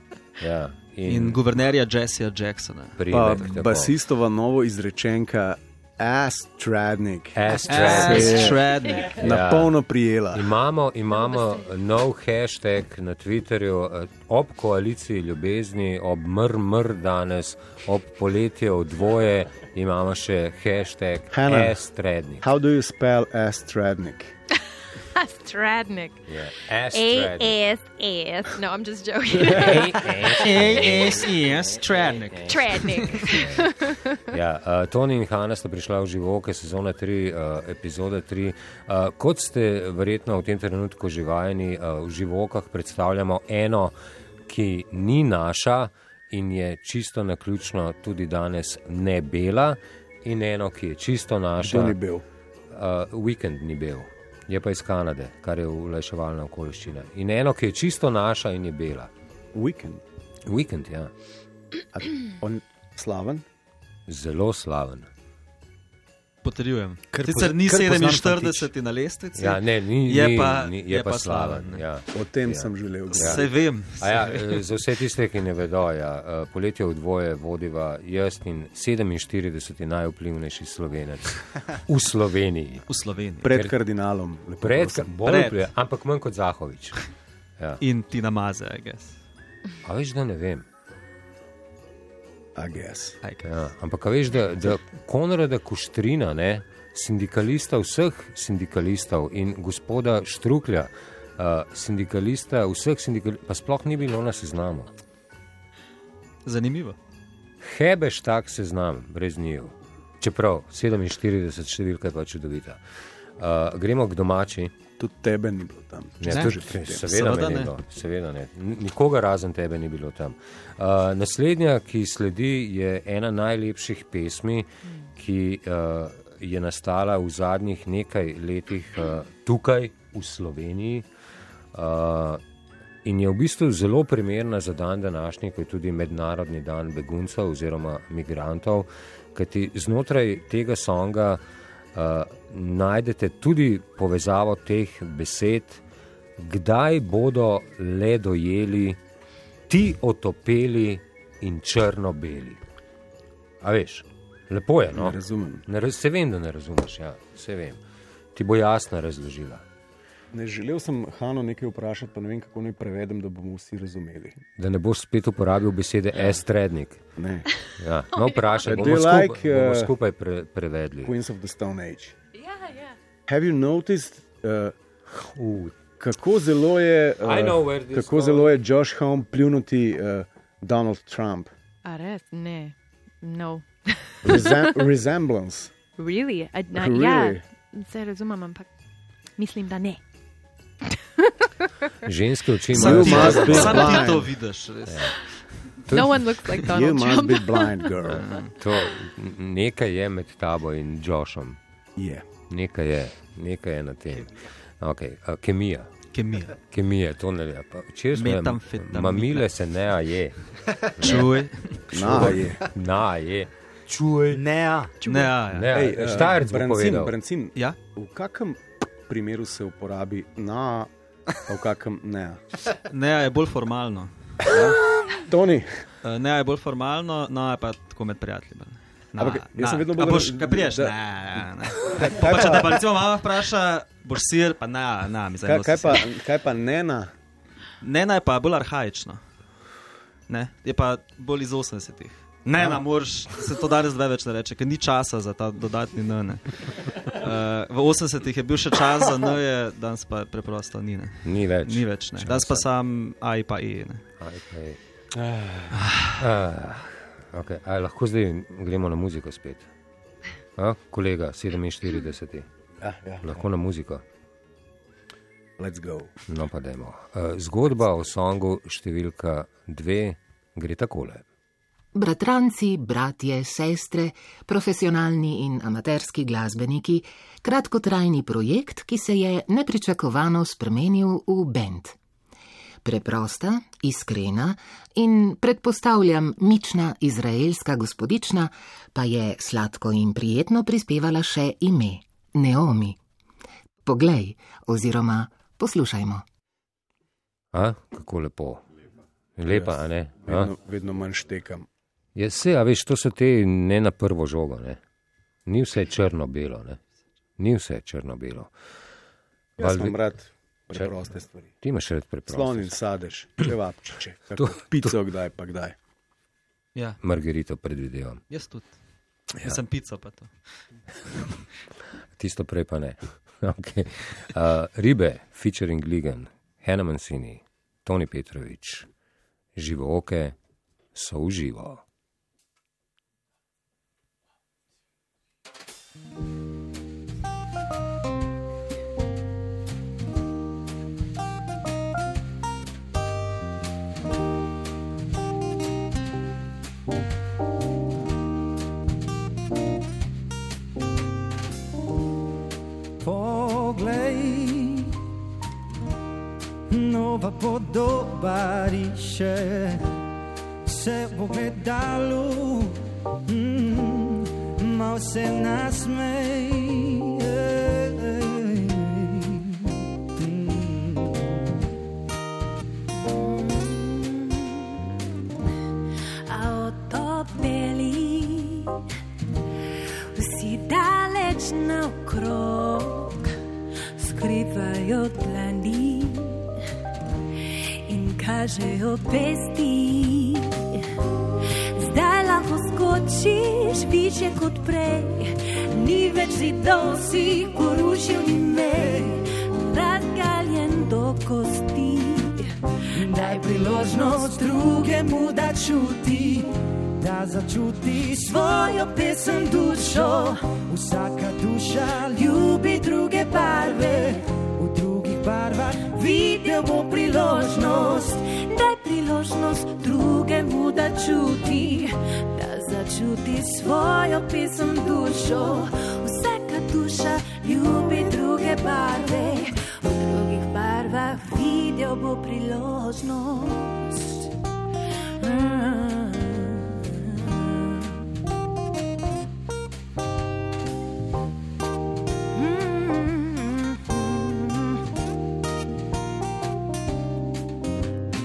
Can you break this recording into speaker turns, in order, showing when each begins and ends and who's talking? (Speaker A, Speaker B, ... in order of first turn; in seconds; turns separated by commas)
Speaker A: 0.4-1.4, Speaker B: 1.1-3.0, Speaker A: 3.0-3.9, Speaker C: 3.1-10.5, Speaker A: 7.3-8.6, Speaker B: 7.7-9.2, Speaker A: 9.2-9.8, Speaker A: 10.3-22.4, Speaker C: 21.3-21.8, Speaker C: 22.4-24.3, Speaker D: 25.5-26.1, Speaker A: 26.3-27.6, Speaker D: 26.9-29.3, Speaker E: 28.6-30.3, Speaker A: 29.4-31.2, Speaker B: 30.4-33.4, Speaker E: 33.0-33.7, Speaker A: 33.1-33.8, Speaker A: 34.3-44.0, Speaker A: 44.5-52.0, Speaker C: 51.6-52.2, Speaker A: 52.7-59.1, Speaker C: 59.5-60.0, Speaker A: 60.5-61.1, Speaker C: 61.9-63.4, Speaker A: 64.1-65.1, Speaker B: 66.4-71.8, Speaker F: 67.1-68.7, Speaker A: 69.4-82.9, Speaker C: 72.1-73.5, Speaker B: 73.1-74.6, Speaker B: 82.9-83.5, Speaker C: 83.4-85.5, Speaker A: 84.6-87.0, Speaker B: 85.2-85.6, Speaker B: 87.8-89.2, Speaker A: 89.8-90.7, Speaker C: 92.5-93.2, Speaker A: 93.4-104.9, Speaker B: 106.5-107.0, Speaker A: 107.6-112.8, Speaker A: 113.4-114.7, Speaker C: 115.0-117.2, Speaker A: 116.2-131.1, Speaker B: 116.3-116.5, Speaker B: 117.1-117.7, Speaker A: 131.7-132.4, Speaker A: 133.0-141.4, Speaker A: 141.9-145.8, Speaker A: 146.4-149.0, Speaker A: 149.7-152.6, Speaker A: 153.6-157.8, Speaker C: 154.9-155.7, Speaker A: 158.3-159.6, Speaker C: 160.3-164.4, Speaker A: 164.6-167.0, Speaker C: 167.2-167.6, Speaker A: 167.8-171.1, Speaker E: 168.2-168.7, Speaker C: 168.6-169.9, Speaker C: 171.0-172.2, Speaker C: 173.3-174.7, Speaker A: 175.1-175.8, Speaker C: 176.0-181.5, Speaker A: 177.2-178.6, Speaker E: 181.9-182.3, Speaker D: 182.0-182.7, Speaker D: 183.3-183.6, Speaker C: 184.2-185.7, Speaker E: 186.0-187.4, Speaker D: 186.1-186.6, Speaker C: 186.7-187.4, Speaker D: 187.9-188.6, Speaker E: 188.0-188.6, Speaker E: 189.4-189.8, Speaker D: 189.4-190.0, Speaker A: 192.1-194.1, Speaker B: 192.7-195.4, Speaker C: 192.7-194.3, Speaker A: 194.9-195.2, Speaker A: 195.9-196.5, Speaker E: 195.9-197.9, Speaker C: 196.6-198.3, Speaker B: 198.1-198.5, Speaker A: 198.2-201.6, Speaker C: 202.0-202.3, Speaker A: 202.5-205.9, Speaker B: 206.1-206.6, Speaker A: 206.7-210.3, Speaker B: 208.1-209.5, Speaker A: 211.0-211.3, Speaker B: 211.0-212.3, Speaker C: 211.9-212.7, Speaker A: 212.0-214.4, Speaker F: 214.3-215.4, Speaker B: 215.1-215.9, Speaker A: 215.5-217.1, Speaker C: 215.7-220.9, Speaker C: 221.4-222.4, Speaker B: 222.9-224.1, Speaker C: 224.4-225.8, Speaker B: 226.0-236.1, Speaker C: 229.2-232.8, Speaker C: 235.4-237.1, Speaker B: 237.8-239.2, Speaker B: 240.3-254.0, Speaker C: 242.6-242.8, Speaker A: 251.2-252.7, Speaker A: 254.2-254.8, Speaker C: 255.2-255.8, Speaker B: 255.8-256.1, Speaker A: 256.2-259.7, Speaker A: 260.6-262.5, Speaker C: 262.8-263.4, Speaker A: 263.2-264.0, Speaker C: 265.6-266.1, Speaker A: 266.3-271.2, Speaker G: 271.9-282.0, Speaker G: 282.8-293.0, Speaker G: 293.9-296.2, Speaker A: 297.5-298.6, Speaker A: 299.4-300.5, Speaker C: 299.5-301.7, Speaker A: 302.1-304.8, Speaker A: 305.5-306.8, Speaker A: 307.4-308.5, Speaker C: 309.6-311.5, Speaker A: 309.6-310.1, Speaker A: 311.6-312.7, Speaker C: 312.3-315.8, Speaker A: 314.4-314.9, Speaker A: 317.0-318.2, Speaker B: 318.3-318.8, Speaker B: 319.4-320.3, Speaker A: 322.2-328.9, Speaker A: 329.6-330.4, Speaker A: 330.9-331.8, Speaker F: 353.0-355.0, Speaker F: 356.7-359.9, Speaker F: 360.7-371.4, Speaker D: 373.0-375.0, Speaker D: 376.3-378.8, Speaker D: 380.1-383.4, Speaker D: 383.9-386.5, Speaker D: 387.4-390.9, Speaker D: 391.7-402.5, Speaker F: 402.9-408.4, Speaker D: 403.1-405.0, Speaker D: 408.2-410.5, Speaker F: 409.4-409.7, Speaker F: 410.5-416.9, Speaker D: 412.4-414.2, Speaker D: 415.8-434.3, Speaker D: 435.2-437.9, Speaker D: 442.3-444.8